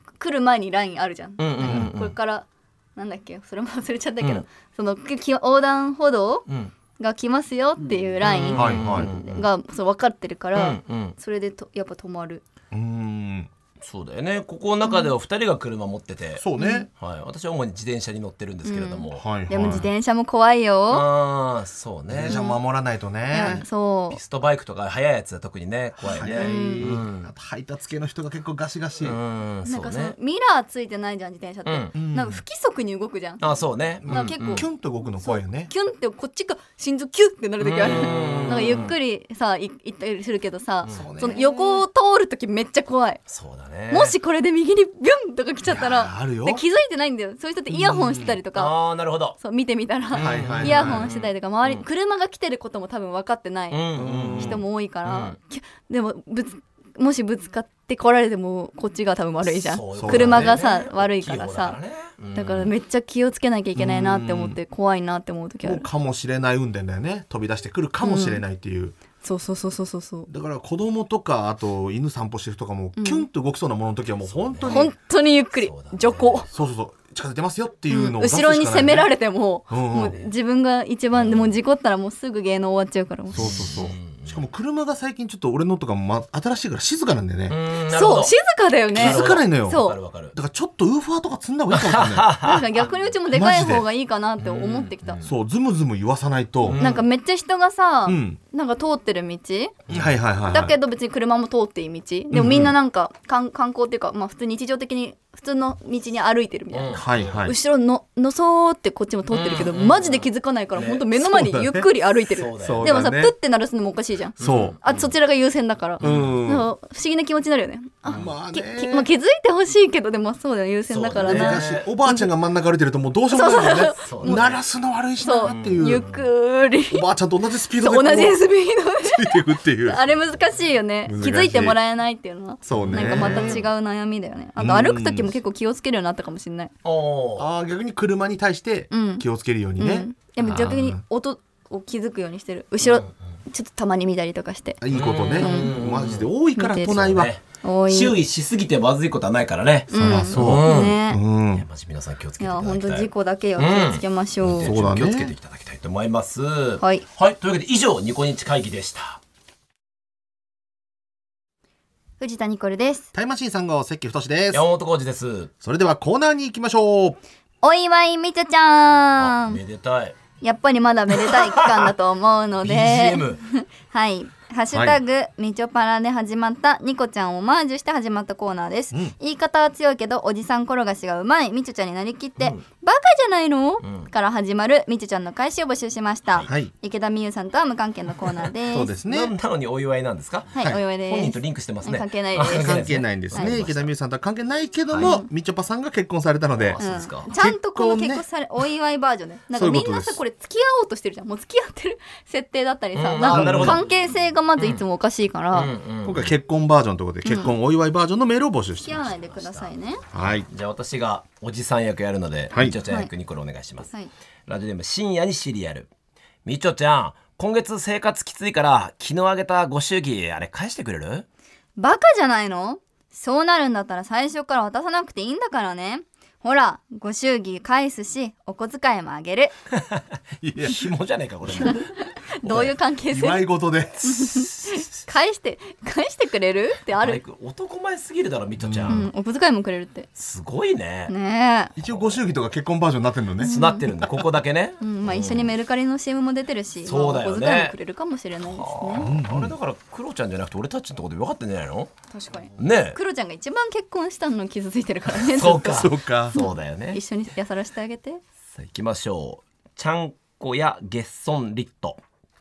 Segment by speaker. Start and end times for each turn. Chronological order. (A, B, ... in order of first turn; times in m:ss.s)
0:00.2-0:06.5 A
0:01.4-0:02.1 B
0:01.6-0:02.0 C
0:07.0-0:12.4 A
0:08.2-0:09.4 B
0:08.5-0:09.1 C
0:10.5-0:11.2 B
0:12.7-0:13.5 C
0:13.8-0:16.4 B
0:14.8-0:15.1 A
0:16.4-0:16.9 C
0:16.6-0:16.9 A
0:17.0-0:19.8 B
0:18.6-0:21.0 A
0:19.1-0:19.9 C
0:20.9-0:22.4 B
0:22.1-0:23.6 C
0:22.2-0:22.6 A
0:23.3-0:24.2 A
0:24.1-0:27.3 B
0:26.0-0:29.2 C
0:26.2-0:26.9 A
0:29.0-0:30.1 B
0:29.6-0:33.6 A
0:31.6-0:31.9 B
0:31.9-0:32.4 C
0:33.4-0:34.6 B
0:34.0-0:35.7 C
0:34.1-0:43.2 A
0:37.6-0:38.9 B
0:37.9-0:38.6 C
0:40.9-0:41.8 C
0:43.3-0:44.2 B
0:43.9-0:48.7 A
0:45.6-0:46.6 C
0:47.7-0:48.4 C
0:48.5-0:49.4 B
0:49.4-0:53.8 A
0:50.1-0:51.8 B
0:50.2-0:51.1 C
0:53.7-0:55.4 B
0:54.0-0:54.6 C
0:54.3-1:01.8 A
0:59.4-1:02.7 B
0:59.9-1:00.6 C
1:02.3-1:05.8 A
1:03.8-1:04.6 C
1:05.6-1:09.0 C
1:08.0-1:08.4 A
1:09.2-1:10.3 A
1:10.3-1:14.9 C
1:13.0-1:13.3 A
1:14.2-1:14.8 B
1:14.6-1:16.5 A
1:15.6-1:16.5 B
1:16.5-1:19.1 C
1:17.9-1:23.7 A
1:19.7-1:20.2 C
1:21.2-1:21.5 B
1:23.3-1:27.6 C
1:23.3-1:24.4 B
1:27.5-1:28.3 B
1:27.9-1:30.0 A
1:28.9-1:30.3 B
1:28.9-1:32.3 C
1:31.7-1:32.9 B
1:32.4-1:35.2 A
1:33.3-1:33.8 C
1:34.4-1:35.3 B
1:35.2-1:36.8 C
1:36.6-1:37.0 B
1:36.8-1:39.7 A
1:38.0-1:38.4 C
1:39.9-1:40.1 B
1:39.9-1:40.8 C
1:40.5-2:02.3 A
1:42.3-1:42.7 C
1:46.7-1:47.5 B
1:46.9-1:47.6 C
1:49.3-1:51.1 B
1:51.2-1:51.9 C
1:52.3-1:52.9 B
1:52.6-1:53.3 C
1:54.4-1:54.8 C
1:54.4-1:55.1 B
1:56.0-1:56.4 B
1:56.0-1:56.7 C
1:58.1-1:59.1 C
2:00.9-2:01.9 B
2:01.1-2:06.2 C
2:03.3-2:04.4 A
2:04.0-2:04.6 B
2:05.2-2:07.0 A
2:05.4-2:06.2 B
2:06.9-2:08.4 C
2:07.7-2:16.7 A
2:09.0-2:10.0 C
2:11.0-2:11.8 C
2:12.6-2:13.6 C
2:12.8-2:13.7 B
2:14.6-2:15.4 C
2:16.8-2:17.4 B
2:17.4-2:21.0 C
2:18.9-2:19.2 A
2:19.8-2:24.8 A
2:22.8-2:23.1 B
2:24.8-2:27.3 C
2:24.9-2:26.3 B
2:25.4-2:25.7 A
2:26.6-2:27.0 A
2:26.9-2:31.0 B
2:27.6-2:28.1 A
2:29.9-2:31.2 A
2:30.0-2:31.6 C
2:31.5-2:39.2 B
2:32.4-2:34.7 A
2:34.6-2:35.3 C
2:36.8-2:37.0 A
2:42.2-2:43.1 A
2:43.1-2:44.6 C
2:44.5-2:45.5 B
2:45.6-2:47.2 C
2:47.6-2:49.6 A
2:49.2-2:50.2 B
2:50.4-3:08.9 A
2:51.1-2:51.9 B
2:52.6-2:53.4 B
2:54.7-2:55.0 C
3:03.8-3:04.1 B
3:06.4-3:06.7 C
3:08.7-3:09.3 C
3:09.0-3:13.9 B
3:10.5-3:13.5 A
3:12.5-3:18.2 C
3:14.9-3:15.2 B
3:15.0-3:15.3 A
3:16.6-3:17.3 B
3:16.8-3:25.7 A
3:19.5-3:20.2 C
3:23.0-3:23.9 B
3:23.2-3:23.8 C
3:24.6-3:24.8 B
3:25.5-3:26.3 B
3:26.0-3:29.1 C
3:27.2-3:27.5 A
3:28.8-3:30.0 A
3:29.0-3:29.7 B
3:30.1-3:30.5 C
3:30.5-3:33.9 B
3:32.8-3:33.1 A
3:34.5-3:35.9 B
3:36.4-3:41.2 B
3:41.8-3:49.5 A
3:50.4-3:50.8 C
3:50.6-3:52.7 B
3:51.6-3:53.5 A
3:52.6-3:54.1 C
3:54.0-3:57.2 A
3:54.2-3:54.7 B
3:57.0-3:59.1 B
3:58.6-3:59.0 C
3:58.9-4:00.1 A
4:00.2-4:01.1 B
4:01.1-4:01.7 A
4:01.8-4:03.5 C
4:01.8-4:02.2 B
4:03.4-4:03.9 A
4:03.4-4:05.5 B
4:04.8-4:09.1 A
4:06.8-4:07.8 B
4:08.4-4:11.9 B
4:09.0-4:09.6 C
4:12.1-4:18.2 A
4:12.6-4:13.0 B
4:15.1-4:17.0 B
4:15.7-4:16.4 C
4:18.5-4:22.0 B